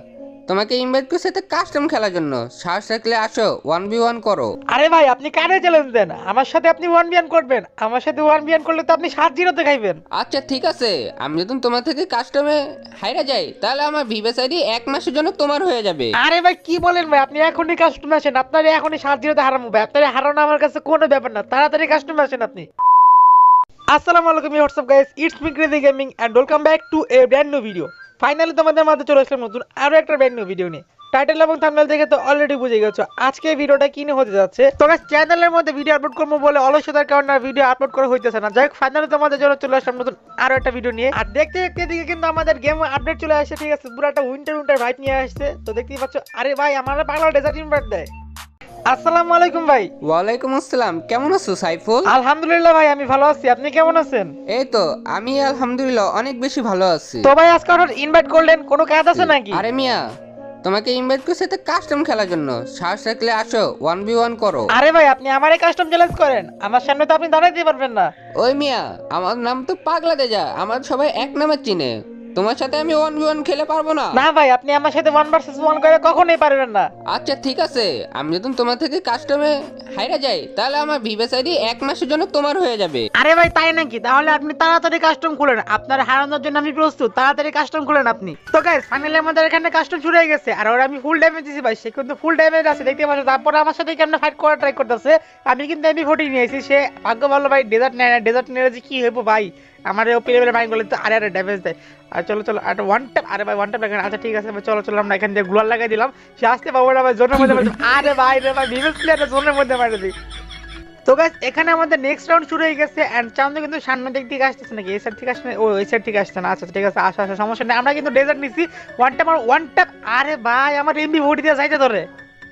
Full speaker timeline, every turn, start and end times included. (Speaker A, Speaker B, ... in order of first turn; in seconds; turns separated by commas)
Speaker A: 0.5-4.5, Speaker B: 4.7-10.0, Speaker A: 10.2-16.1, Speaker B: 16.2-22.7, Speaker B: 23.9-48.1, Speaker B: 48.9-49.9, Speaker A: 50.1-52.1, Speaker B: 52.1-54.3, Speaker A: 54.5-57.3, Speaker B: 57.2-59.6, Speaker A: 59.1-60.0, Speaker A: 60.6-64.7, Speaker B: 64.7-68.1, Speaker A: 68.4-74.2, Speaker B: 74.1-76.9, Speaker A: 77.1-83.1, Speaker B: 83.2-110.1, Speaker B: 111.1-122.0